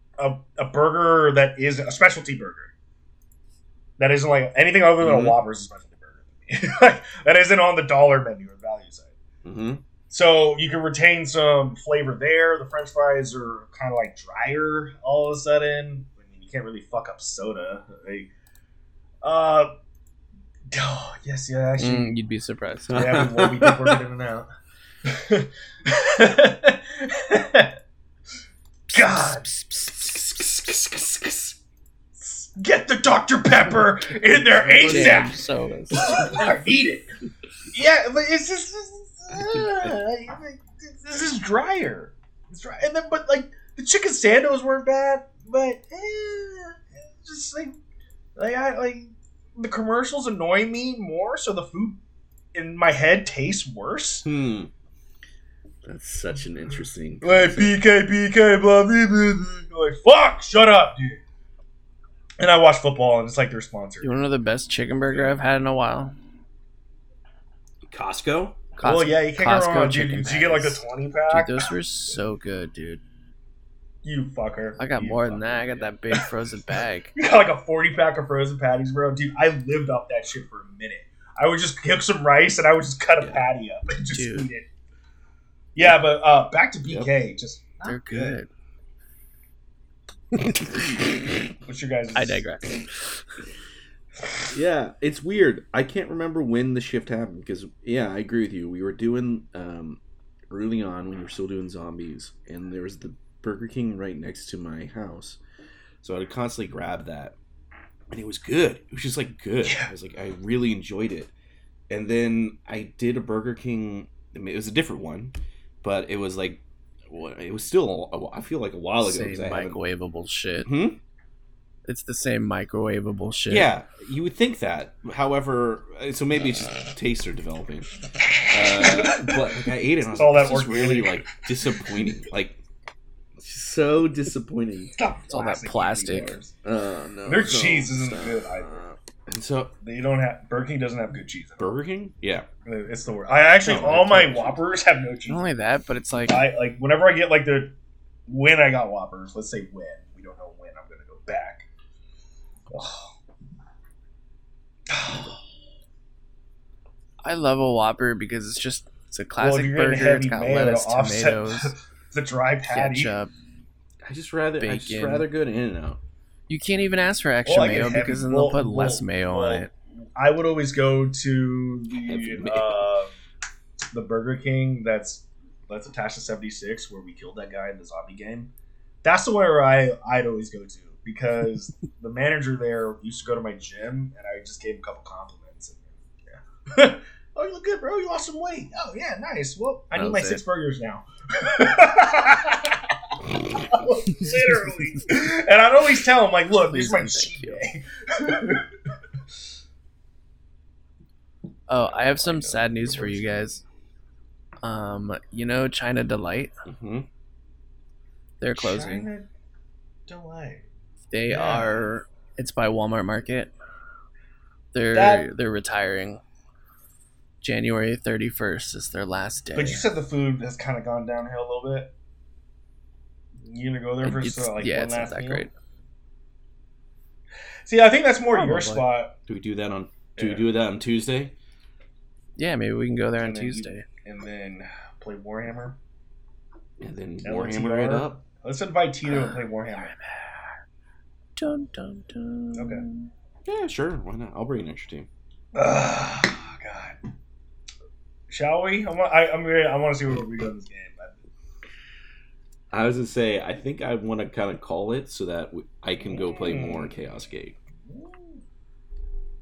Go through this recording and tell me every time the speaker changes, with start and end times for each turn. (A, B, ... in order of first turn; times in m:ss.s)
0:00.2-0:02.7 A
0:04.0-0:09.2 A
0:05.0-0:05.4 B
0:09.4-0:09.8 B
0:10.1-0:18.3 A
0:19.2-0:19.7 A
0:20.7-0:22.1 A
0:21.8-0:23.1 C
0:22.9-0:24.0 B
0:22.9-0:24.5 A
0:25.0-0:27.7 A
0:28.9-0:29.6 A
0:28.9-0:31.5 B
0:30.2-0:30.8 A
0:32.2-0:35.4 A
0:34.6-0:35.3 B
0:34.8-0:36.5 C
0:35.9-0:37.1 A
0:37.7-0:47.7 A
0:48.4-0:52.0 A
0:52.5-0:54.2 A
0:54.2-0:54.7 B
0:55.8-0:57.8 B
0:57.2-1:01.2 A
1:02.4-1:04.1 A
1:04.0-1:06.1 C
1:05.1-1:05.4 A
1:07.9-1:08.6 B
1:08.8-1:13.0 C
1:08.8-1:11.7 A
1:14.0-1:16.3 A
1:14.8-1:17.1 C
1:17.1-1:24.6 A
1:23.2-1:23.4 B
1:24.1-1:24.5 C
1:25.7-1:28.4 A
1:27.8-1:28.5 C
1:30.3-1:31.4 C
1:31.6-1:32.5 A
1:32.1-1:33.0 C
1:34.5-1:45.4 B
1:46.0-1:47.4 B
1:48.1-1:51.3 B
1:49.6-1:49.9 A
1:51.9-1:59.8 B
1:59.0-2:00.7 C
2:00.6-2:01.0 B
2:01.9-2:03.7 C
2:03.5-2:07.9 B
2:08.2-2:09.4 A
2:08.5-2:12.6 B
2:10.1-2:12.0 A
2:13.4-2:14.9 B
2:15.0-2:16.6 A
2:15.3-2:16.4 C
2:16.6-2:19.7 B
2:17.2-2:18.7 A
2:19.8-2:21.8 A
2:21.6-2:22.5 B
2:22.6-2:25.4 A
2:23.6-2:24.2 C
2:23.6-2:24.6 B
2:25.3-2:26.4 C
2:26.2-2:27.8 A
2:28.3-2:31.7 A
2:32.7-2:33.1 A
2:34.9-2:35.3 A
2:35.1-2:35.4 B
2:37.2-2:41.7 C
2:39.4-2:43.1 A
2:42.7-2:43.3 C
2:44.0-2:46.0 B
2:44.6-2:45.3 C
2:46.5-2:49.7 C
2:47.4-2:53.1 A
2:52.0-2:52.8 B
2:53.9-2:58.5 A
2:59.0-3:18.7 A
3:09.9-3:10.4 C
3:16.7-3:17.6 C
3:21.7-3:23.6 C
3:21.9-3:23.6 A
3:24.6-3:26.5 C
3:26.6-3:27.1 B
3:28.4-3:29.1 C
3:28.5-3:29.2 A
3:30.1-3:30.6 A
3:31.1-3:33.5 C
3:31.3-3:31.9 A
3:34.7-3:36.2 C
3:34.9-3:35.3 A
3:37.4-3:39.9 C
3:39.5-3:41.9 A
3:43.4-3:45.5 A
3:44.0-3:45.5 C
3:47.6-3:49.1 A
3:48.3-3:48.8 C
3:49.3-3:51.3 B
3:50.2-3:50.5 A
3:52.4-3:53.8 C
3:53.2-3:55.8 A
3:56.8-3:58.2 B
3:57.2-3:59.9 A
3:59.0-4:00.6 C
4:01.4-4:03.1 C
4:02.6-4:02.8 A
4:03.4-4:05.1 B
4:05.5-4:07.0 A
4:08.3-4:11.2 A
4:12.7-4:17.6 B
4:16.1-4:17.0 A
4:17.8-4:18.4 A